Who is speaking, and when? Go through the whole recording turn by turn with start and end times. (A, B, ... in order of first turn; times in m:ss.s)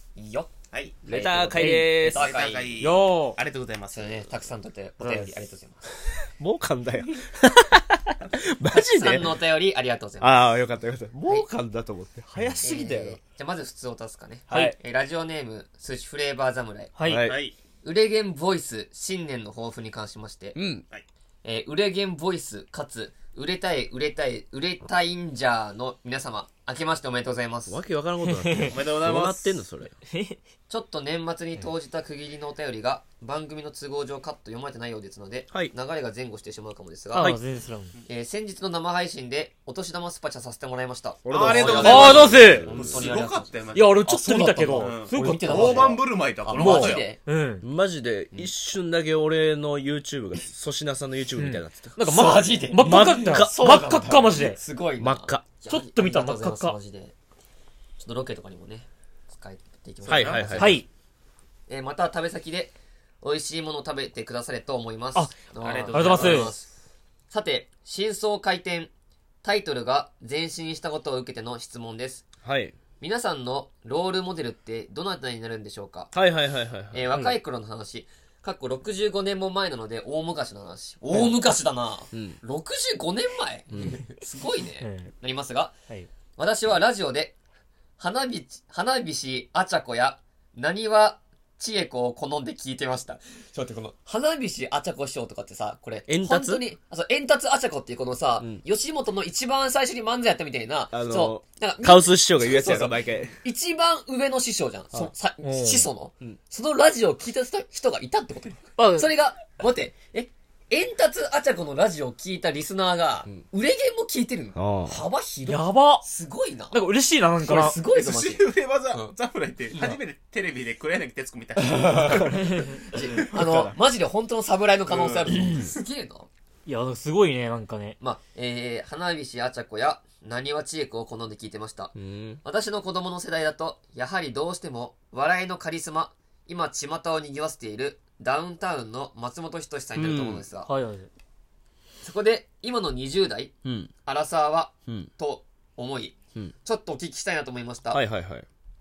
0:00.2-0:00.5 A
0:00.7-0:01.0 B
0:01.0-0:02.8 A
0:01.0-0:02.3 C
0:01.5-0:01.9 D
0:02.0-0:04.3 B
0:02.8-0:03.4 D
0:03.9-0:05.9 A
0:05.0-0:05.4 D
0:06.4-0:09.4 C
0:08.7-0:10.4 A
0:10.2-0:13.2 C
0:12.4-0:12.6 D
0:12.6-0:17.0 A
0:14.5-0:14.8 C
0:17.0-0:17.2 D
0:17.0-0:17.4 C
0:17.2-0:17.5 B
0:17.8-0:20.6 A
0:20.5-0:20.8 C
0:21.4-0:27.8 A
0:27.7-0:29.9 C
0:28.2-0:28.8 D
0:28.6-0:29.6 B
0:30.0-0:30.4 D
0:30.7-0:37.3 A
0:37.1-0:37.9 D
0:38.1-0:47.2 A
0:41.2-0:43.1 C
0:41.3-0:44.0 B
0:41.7-0:42.7 D
0:43.7-0:46.0 D
0:44.7-0:47.1 B
0:46.5-0:47.6 D
0:47.6-0:52.0 C
0:51.4-0:54.6 D
0:52.1-0:57.1 A
0:52.8-0:53.8 C
0:55.0-0:55.4 C
0:55.7-0:56.8 D
0:58.0-1:00.8 A
1:00.0-1:00.7 B
1:00.0-1:00.8 C
1:00.6-1:00.8 D
1:01.7-1:06.7 A
1:05.6-1:06.5 B
1:05.9-1:06.6 D
1:07.3-1:08.9 A
1:09.4-1:12.3 A
1:12.4-1:12.7 C
1:13.0-1:16.1 A
1:16.1-1:17.1 C
1:16.9-1:25.7 A
1:22.1-1:22.4 C
1:23.7-1:24.0 C
1:24.8-1:25.1 D
1:26.4-1:27.4 A
1:28.0-1:56.8 A
1:36.1-1:36.6 C
1:40.9-1:43.4 C
1:45.4-1:45.9 D
1:54.5-1:55.0 C
1:55.4-1:56.0 D
1:56.7-1:57.8 D
1:57.4-1:59.2 A
1:57.8-2:02.6 B
1:59.7-2:00.0 A
2:01.6-2:06.3 A
2:03.3-2:03.7 C
2:04.9-2:05.7 B
2:06.6-2:08.0 D
2:08.0-2:20.7 A
2:11.9-2:12.4 C
2:19.9-2:20.4 C
2:20.6-2:21.1 D
2:22.0-2:23.5 A
2:23.6-2:23.9 C
2:24.0-2:28.0 A
2:27.9-2:28.4 C